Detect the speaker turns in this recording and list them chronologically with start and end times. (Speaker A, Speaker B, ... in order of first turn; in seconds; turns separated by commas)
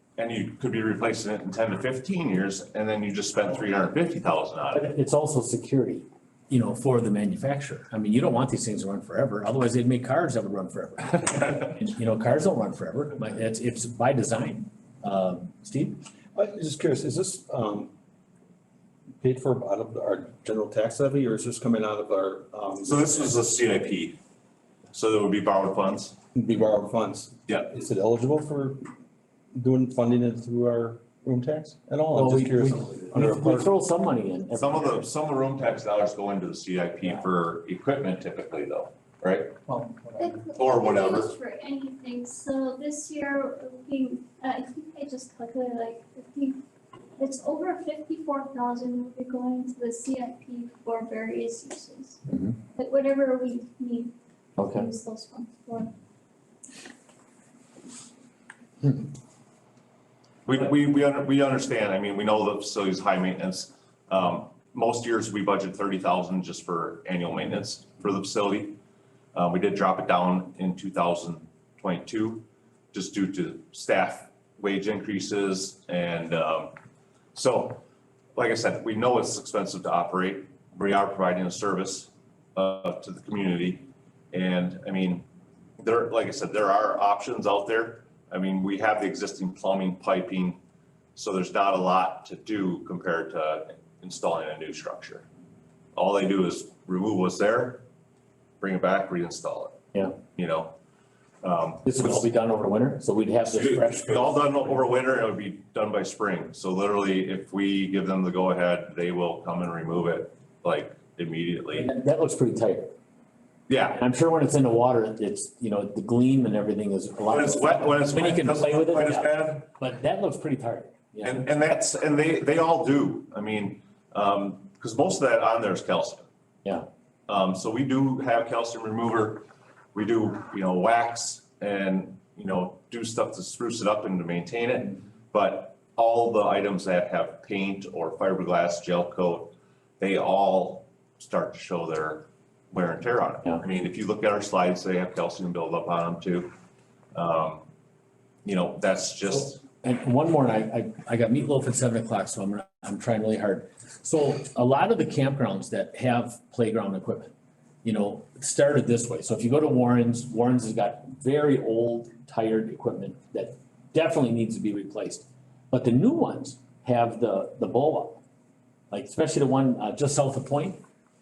Speaker A: 0.2-4.8, Speaker B: 4.7-16.0, Speaker C: 16.3-17.9, Speaker C: 19.2-23.1, Speaker A: 22.8-24.2, Speaker A: 24.9-26.2, Speaker C: 26.3-28.8, Speaker C: 29.5-33.7, Speaker B: 32.1-35.0, Speaker A: 34.5-39.6, Speaker D: 40.2-46.6, Speaker A: 40.5-41.3, Speaker D: 47.2-52.2, Speaker B: 52.3-52.5, Speaker D: 52.8-55.9, Speaker B: 54.6-54.9, Speaker A: 60.5-68.8, Speaker A: 69.3-76.7, Speaker A: 77.3-77.8, Speaker A: 78.3-85.2, Speaker A: 85.8-90.6, Speaker A: 91.2-95.2, Speaker A: 95.9-97.8, Speaker A: 98.6-100.7, Speaker A: 101.4-102.3, Speaker B: 101.8-104.3, Speaker A: 103.5-111.9, Speaker B: 111.7-112.9, Speaker A: 113.7-114.0, Speaker B: 113.9-121.4, Speaker A: 117.3-119.7, Speaker A: 121.2-126.2, Speaker A: 127.3-146.5, Speaker A: 147.1-147.6, Speaker A: 148.4-149.6, Speaker B: 149.8-157.3, Speaker B: 157.8-168.2, Speaker B: 168.9-170.8